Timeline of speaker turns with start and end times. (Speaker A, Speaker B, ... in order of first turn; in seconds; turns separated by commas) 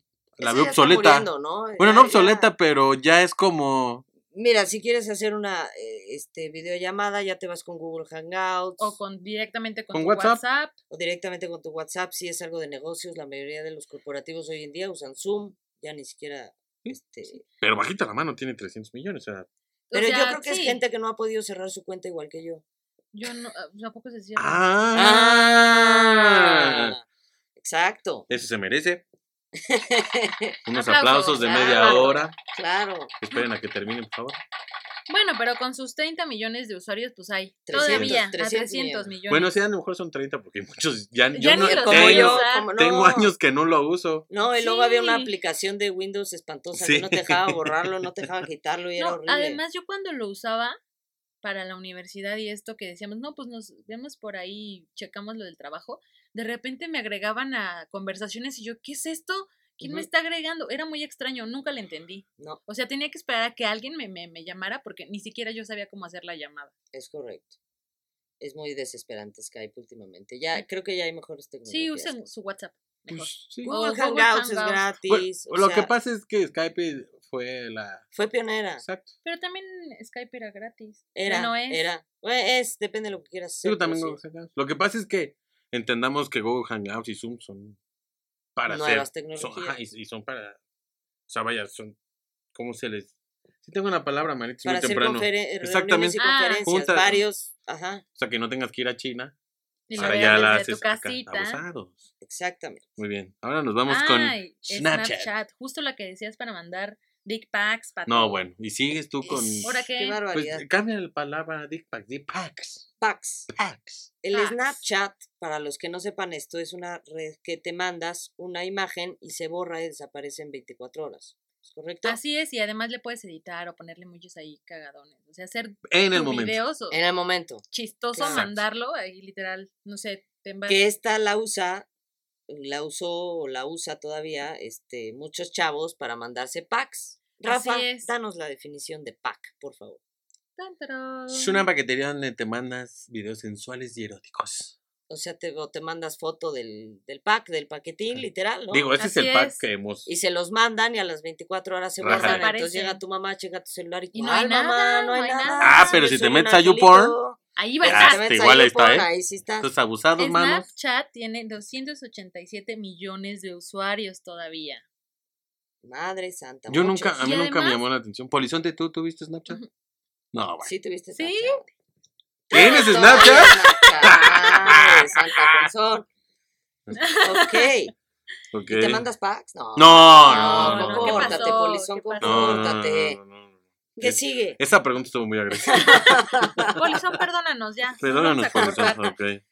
Speaker A: 0.4-4.0, Speaker B: 0.4-2.5, Speaker B: 4.3-9.0, Speaker C: 8.8-10.7, Speaker A: 9.9-10.4, Speaker B: 10.9-17.4, Speaker A: 17.6-19.5, Speaker C: 19.9-20.8, Speaker B: 19.9-22.6, Speaker C: 23.1-24.7, Speaker A: 24.4-26.9, Speaker B: 24.9-27.0, Speaker B: 27.6-28.3, Speaker A: 28.3-29.0, Speaker B: 29.6-30.6, Speaker A: 30.7-32.4, Speaker C: 30.7-32.3, Speaker B: 31.4-33.1, Speaker A: 33.2-34.4, Speaker C: 35.1-39.5, Speaker B: 37.7-39.1, Speaker A: 37.7-38.2, Speaker A: 39.3-44.3, Speaker C: 41.3-42.7, Speaker B: 41.4-43.3, Speaker B: 44.3-49.6, Speaker C: 44.6-45.3, Speaker A: 46.8-48.3, Speaker C: 49.0-50.8, Speaker C: 51.4-66.7, Speaker B: 59.8-60.1, Speaker B: 66.9-67.5, Speaker B: 68.4-72.2, Speaker C: 71.7-74.8, Speaker A: 73.1-73.7, Speaker B: 73.6-75.9, Speaker A: 75.1-78.1, Speaker B: 78.1-78.8, Speaker A: 78.8-79.1, Speaker C: 79.2-81.9, Speaker B: 81.2-84.2, Speaker A: 83.6-87.8, Speaker A: 88.6-90.6, Speaker B: 88.7-89.8, Speaker A: 91.3-92.0, Speaker A: 92.5-93.1, Speaker A: 93.6-97.2, Speaker B: 94.6-98.0, Speaker C: 96.2-97.2, Speaker A: 98.2-99.3, Speaker C: 99.9-101.6, Speaker A: 100.0-102.0, Speaker B: 100.0-100.7, Speaker B: 102.2-102.9, Speaker A: 103.0-105.3, Speaker C: 103.9-108.4, Speaker A: 108.1-112.9, Speaker B: 109.2-110.7, Speaker C: 109.6-110.2, Speaker B: 113.0-113.5, Speaker A: 113.5-114.1, Speaker B: 114.2-122.2, Speaker C: 114.3-114.8, Speaker C: 122.0-127.0, Speaker A: 125.9-126.6, Speaker B: 126.9-128.4, Speaker C: 127.7-130.8, Speaker A: 128.3-128.6, Speaker B: 130.7-131.9, Speaker B: 132.5-140.0, Speaker C: 137.4-138.1, Speaker C: 140.6-141.7, Speaker A: 141.3-144.8, Speaker B: 145.1-148.9, Speaker A: 148.7-150.1, Speaker C: 149.0-149.7, Speaker B: 150.1-159.7, Speaker A: 152.0-152.4, Speaker C: 152.1-153.0, Speaker C: 154.1-156.0, Speaker A: 155.6-157.2, Speaker C: 157.6-158.2, Speaker A: 157.8-159.1, Speaker A: 159.6-160.7, Speaker C: 160.2-164.8, Speaker B: 165.8-167.2, Speaker A: 166.7-169.6, Speaker C: 167.2-167.8, Speaker A: 170.3-170.7, Speaker B: 170.6-171.7, Speaker C: 171.1-171.6, Speaker B: 172.5-176.1, Speaker A: 172.5-175.7, Speaker C: 172.6-173.2, Speaker C: 177.0-177.7, Speaker B: 177.2-177.9, Speaker A: 178.5-179.1, Speaker B: 178.7-183.2, Speaker A: 179.8-181.6, Speaker C: 180.3-182.7, Speaker A: 182.2-186.8, Speaker B: 184.0-184.6, Speaker B: 185.6-186.8, Speaker C: 185.8-186.2, Speaker C: 186.8-189.0, Speaker A: 188.0-189.4, Speaker B: 188.6-189.1